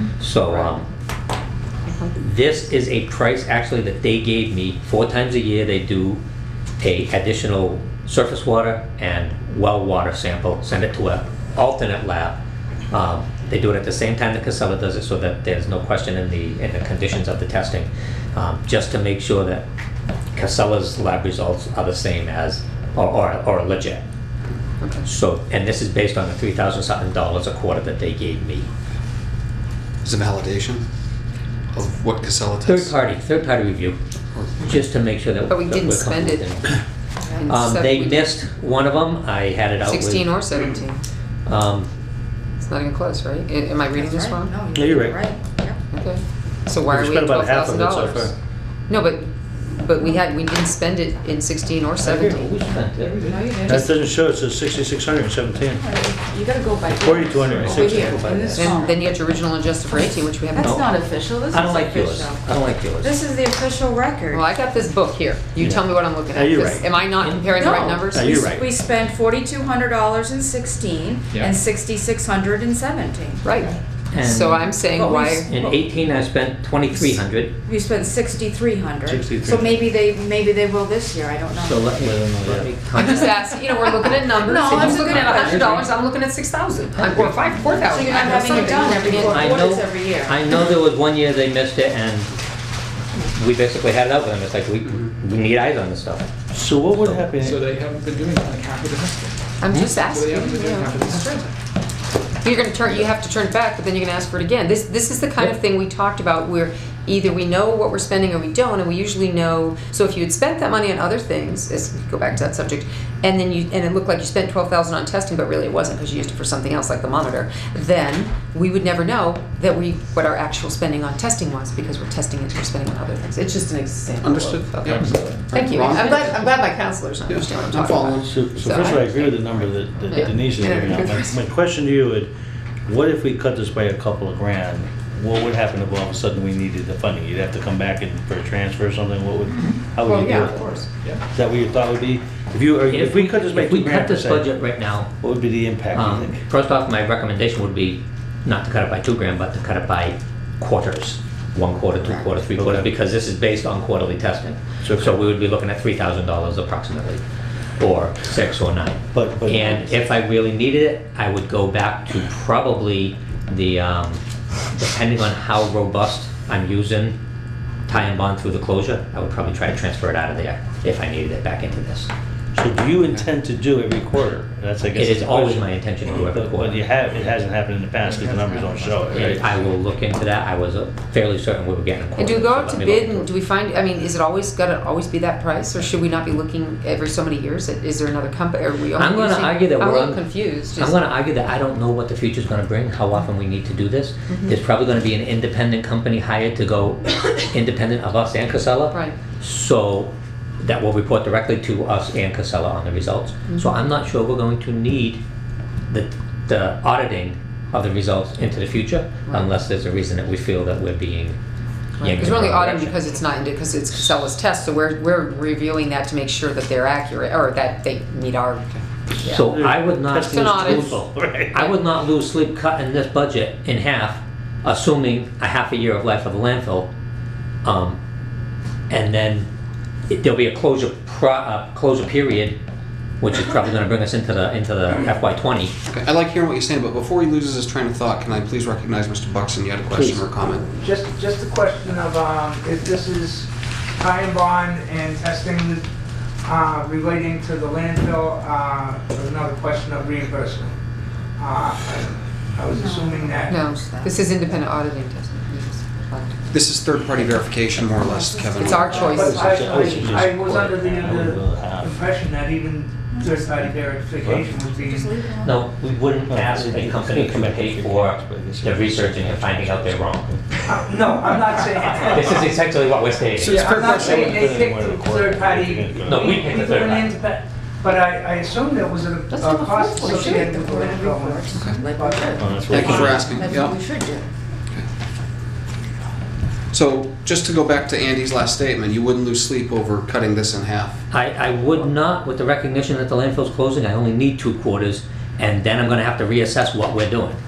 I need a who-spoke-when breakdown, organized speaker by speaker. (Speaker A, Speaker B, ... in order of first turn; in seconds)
Speaker A: 0.2-0.9, 2.1-6.2, 6.8-12.4, 12.9-19.6, 20.3-24.0, 25.0-28.7, 32.6-34.0, 34.6-36.7, 37.4-40.4, 41.5-41.9, 52.0-53.2, 57.5-58.9, 60.6-60.9, 61.5-63.1, 67.2-67.9, 74.1-77.5, 81.5-83.5, 84.6-85.8, 87.0-87.4, 88.3-92.3, 93.2-96.3, 142.9-145.1, 145.9-157.2, 157.8-164.2, 164.7-167.2, 167.9-172.1, 174.9-176.8, 179.1-183.3, 188.9-205.2, 205.9-211.4, 212.0-213.0, 219.2-226.9, 227.6-228.0, 228.9-229.5, 230.1-232.6, 233.2-235.7, 239.9-240.2, 265.4-270.3, 272.1-273.8, 276.1-277.1, 282.8-283.2, 291.1-297.4
Speaker B: 1.9-2.1, 24.8-25.1, 35.5-36.5, 37.4-38.3, 39.8-41.0, 42.6-44.5, 45.9-48.3, 48.9-49.2, 49.8-52.5, 58.5-60.9, 64.3-68.5, 73.4-75.5, 83.0-89.8, 99.6-101.5, 102.4-129.5, 130.1-131.3, 140.0-140.9, 182.2-191.0, 194.3-194.6, 212.0-219.3, 220.3-221.0, 253.5-256.5, 258.5-259.9
Speaker C: 30.0-30.9, 31.7-33.0, 34.3-34.7, 124.2-126.6, 127.3-128.8, 235.9-240.7, 256.5-259.2, 273.3-274.6, 281.5-281.9, 282.7-283.8, 286.7-291.0
Speaker D: 43.9-45.8, 53.2-54.0, 55.7-59.0, 60.5-64.4, 67.5-73.5, 74.9-75.8, 77.7-81.9, 84.3-85.9, 87.8-90.4, 252.7-254.4, 257.9-260.2, 263.1-263.7, 264.7-265.6, 279.3-284.3
Speaker E: 44.7-45.2, 46.8-48.3, 52.0-52.4, 53.6-55.8, 56.9-58.5, 65.6-66.9, 68.1-68.7, 79.0-79.9, 81.9-82.7, 96.5-97.6, 128.2-132.3, 132.8-140.6, 141.3-144.5, 145.2-146.4, 152.6-152.9, 154.8-155.1, 159.1-159.7, 172.5-179.5, 219.3-221.7, 259.4-262.0, 264.2-264.6, 266.2-270.5, 273.7-276.8, 282.4-283.3
Speaker F: 53.0-53.4, 97.3-99.3, 99.9-101.5
Speaker G: 240.7-245.8, 246.4-250.7, 251.4-253.6, 259.0-265.1, 270.6-272.6, 273.5-283.1